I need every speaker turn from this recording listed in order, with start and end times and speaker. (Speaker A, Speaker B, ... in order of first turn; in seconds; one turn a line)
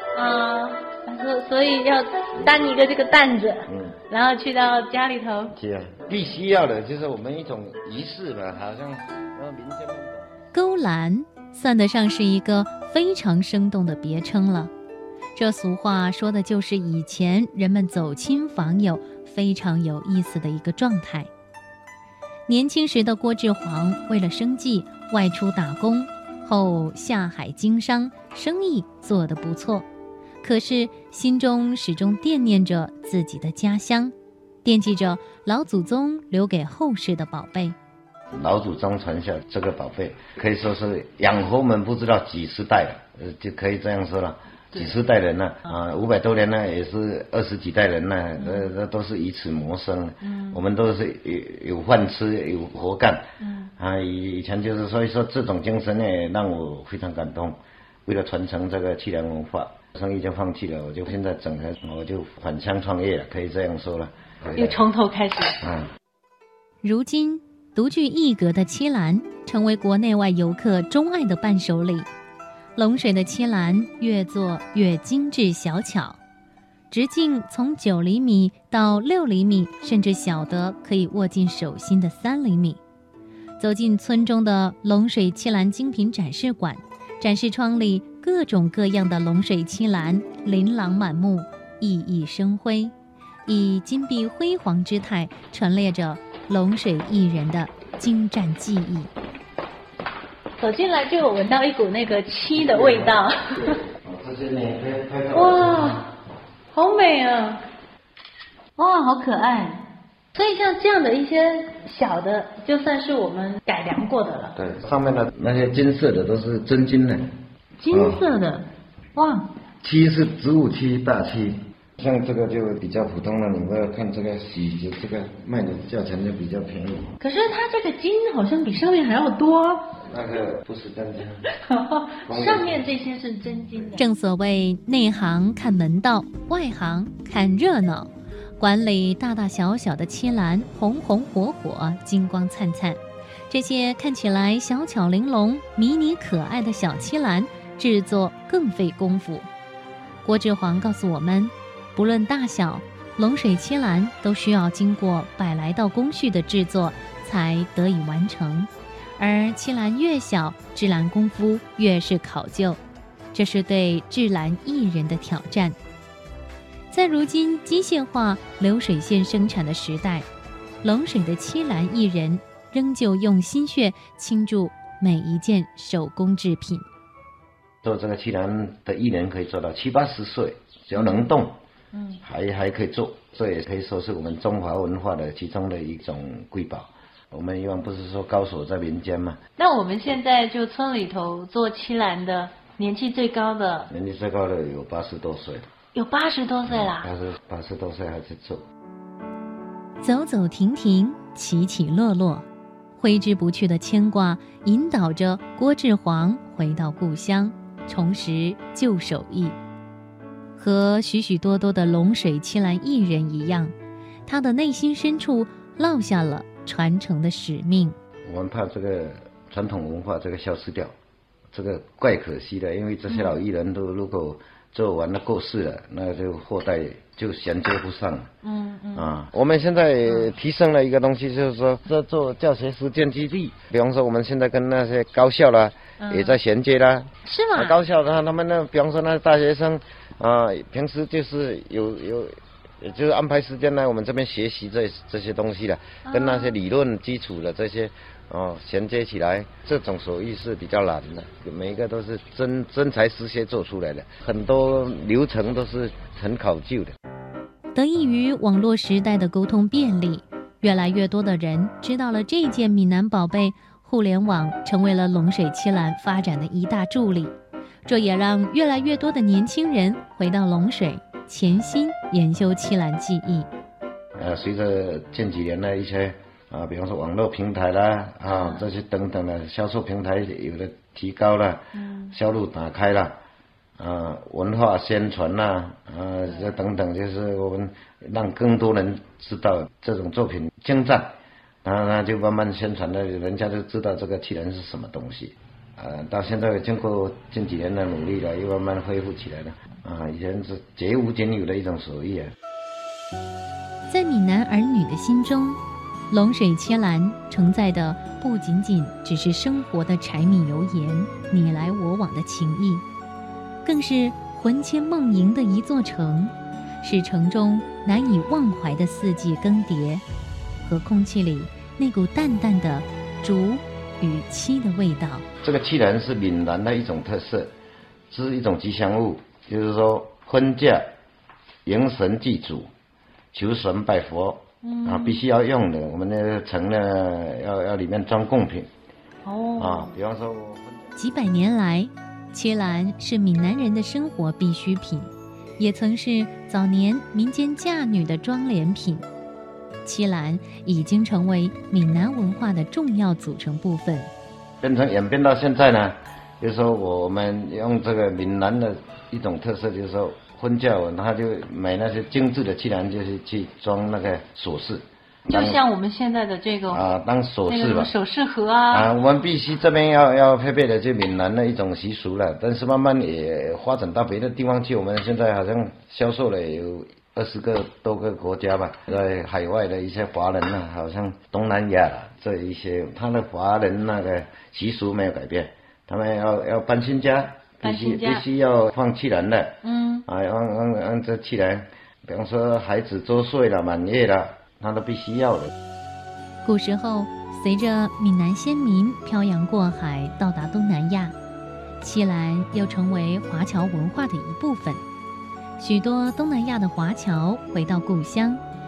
Speaker A: 0.1-5.5
Speaker B: 3.7-4.0
Speaker B: 5.5-10.3
Speaker C: 10.5-14.7
Speaker C: 15.3-21.3
Speaker C: 22.5-29.9
Speaker C: 30.4-37.8
Speaker B: 38.3-53.2
Speaker A: 48.4-48.7
Speaker A: 50.2-50.6
Speaker A: 53.4-53.7
Speaker B: 53.8-64.8
Speaker A: 64.6-65.6
Speaker B: 65.6-65.9
Speaker C: 66.8-72.1
Speaker C: 72.8-76.2
Speaker C: 76.9-82.8
Speaker C: 83.6-92.9
Speaker C: 93.5-99.1
Speaker A: 100.6-103.8
Speaker B: 102.5-106.1
Speaker A: 105.3-106.1
Speaker A: 106.7-107.6
Speaker A: 108.8-114.6
Speaker B: 114.6-117.3
Speaker A: 117.8-119.5
Speaker B: 117.9-118.2
Speaker B: 119.8-127.1
Speaker A: 127.2-130.0
Speaker B: 130.0-131.4
Speaker A: 131.7-134.1
Speaker B: 132.3-132.8
Speaker C: 134.0-149.5
Speaker C: 150.2-162.8
Speaker C: 163.3-165.8
Speaker C: 166.9-170.3
Speaker C: 170.8-176.8
Speaker B: 177.8-181.6
Speaker A: 180.9-181.3
Speaker A: 181.9-182.2
Speaker B: 182.2-189.4
Speaker A: 189.6-193.9
Speaker B: 193.9-195.7
Speaker A: 195.9-197.1
Speaker B: 196.7-198.6
Speaker C: 200.0-202.5
Speaker C: 203.0-209.6
Speaker C: 210.6-213.7
Speaker C: 214.3-218.0
Speaker B: 218.3-220.9
Speaker B: 221.5-228.3
Speaker A: 223.1-223.4
Speaker A: 228.4-229.1
Speaker B: 228.9-257.0
Speaker A: 230.1-230.3
Speaker A: 236.0-236.4
Speaker A: 237.3-237.8
Speaker A: 246.1-246.6
Speaker C: 257.7-267.3
Speaker C: 267.9-273.5
Speaker B: 274.2-283.2
Speaker A: 278.3-278.7
Speaker A: 281.8-282.1
Speaker B: 283.8-302.3
Speaker C: 303.9-305.6
Speaker C: 306.1-312.9
Speaker C: 313.6-320.0
Speaker C: 320.6-325.3
Speaker B: 325.4-327.5
Speaker B: 328.1-330.9
Speaker B: 331.6-332.7
Speaker B: 333.3-338.7
Speaker A: 334.6-335.2
Speaker A: 339.2-339.9
Speaker B: 339.6-340.9
Speaker C: 341.0-349.0
Speaker C: 349.9-354.1
Speaker B: 354.6-365.6
Speaker A: 365.3-366.9
Speaker B: 366.7-367.9
Speaker A: 367.5-368.9
Speaker B: 368.7-395.5
Speaker A: 387.6-388.2
Speaker A: 389.6-390.1
Speaker C: 396.4-401.1
Speaker C: 401.8-404.8
Speaker C: 405.6-408.4